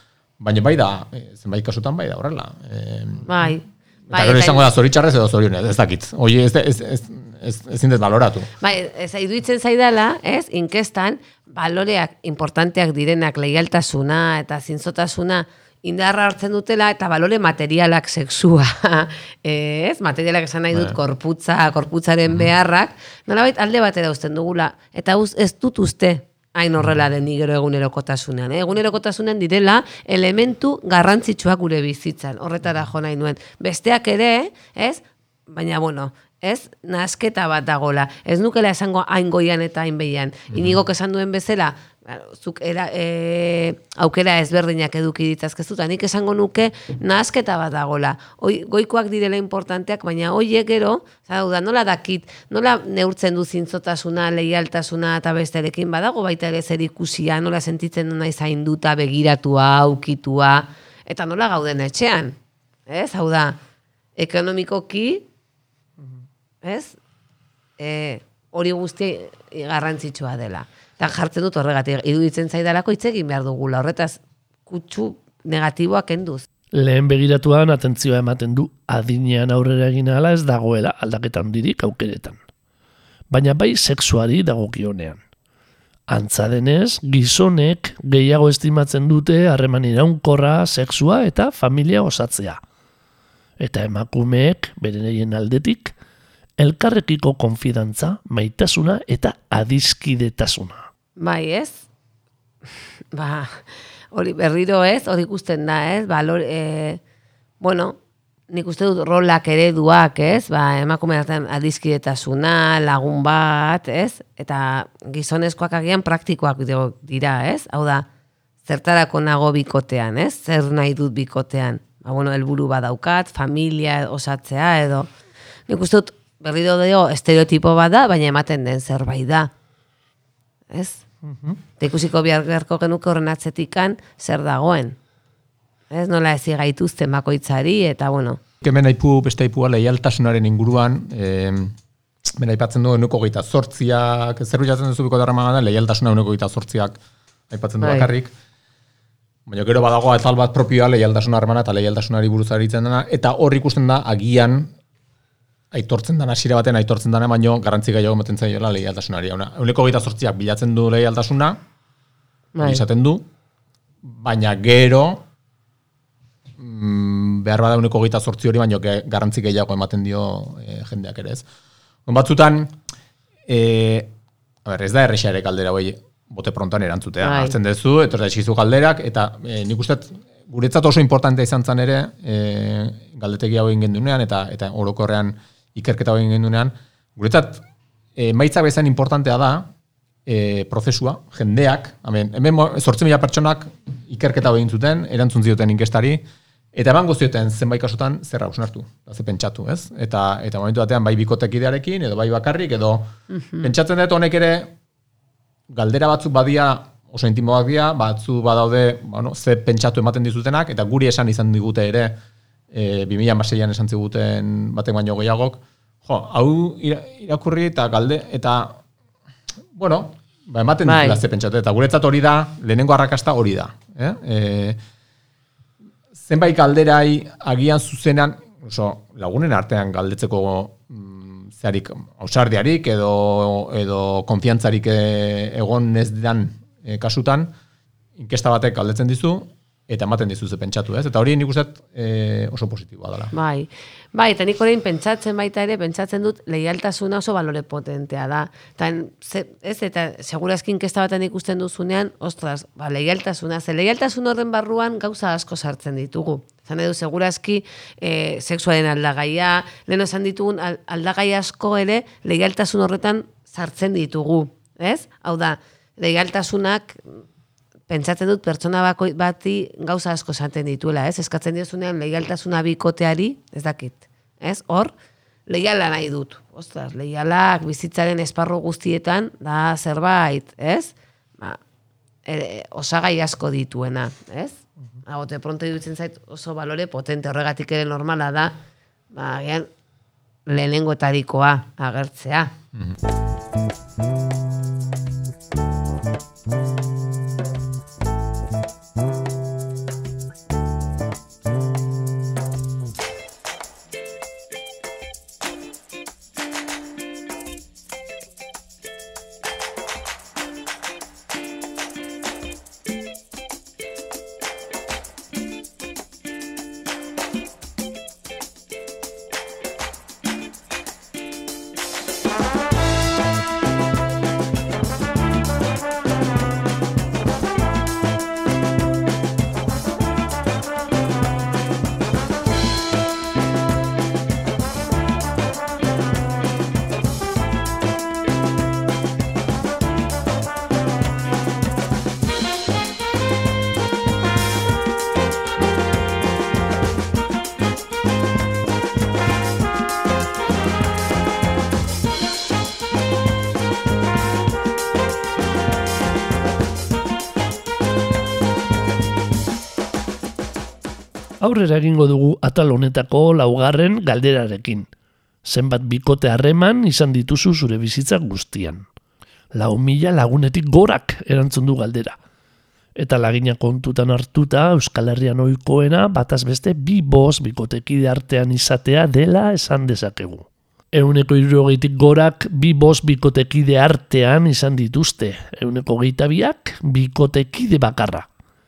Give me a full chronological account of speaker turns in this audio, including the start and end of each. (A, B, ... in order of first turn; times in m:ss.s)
0:00.4-0:03.5 A
0:03.2-0:04.7 B
0:04.1-0:08.5 A
0:08.6-1:02.4 B
0:40.5-0:40.8 A
1:02.9-1:03.6 B
1:04.2-1:05.2 B
1:06.6-1:07.0 B
1:07.8-1:16.5 B
1:16.7-1:22.4 C
1:23.3-1:25.2 C
1:26.1-1:32.6 C
1:33.6-1:35.9 C
1:36.6-1:40.8 C
1:41.2-1:41.8 B
1:43.1-1:43.6 B
1:44.1-1:47.0 B
1:47.6-1:48.0 B
1:48.5-1:58.0 B
1:58.6-2:05.1 B
2:05.7-2:09.5 B
2:10.7-2:11.0 B
2:11.8-2:15.0 B
2:15.9-2:18.4 B
2:18.6-2:27.0 A
2:27.5-2:28.3 A
2:27.8-2:28.1 B
2:29.5-2:34.7 A
2:35.7-2:41.6 A
2:42.5-2:42.8 B
2:42.6-2:43.3 A
2:44.0-2:45.2 A
2:46.6-2:51.4 A
2:52.0-2:52.7 A
2:53.5-2:54.1 A
2:54.6-3:07.6 A
2:57.2-2:57.6 B
3:08.2-3:09.7 A
3:10.2-3:24.7 A
3:23.3-3:23.7 B
3:25.7-3:32.2 A
3:32.7-3:38.8 A
3:39.7-3:44.8 A
3:40.8-3:41.2 B
3:46.2-3:57.5 A
3:58.2-4:03.3 A
4:03.3-4:27.2 B
4:27.9-4:34.9 B
4:35.5-4:41.6 B
4:42.2-4:48.6 B
4:49.1-4:49.7 B
4:50.5-4:52.5 B
4:52.7-4:53.0 A
6:01.4-6:04.9 C
6:05.4-6:08.8 C
6:09.5-6:12.2 C
6:13.0-6:28.3 C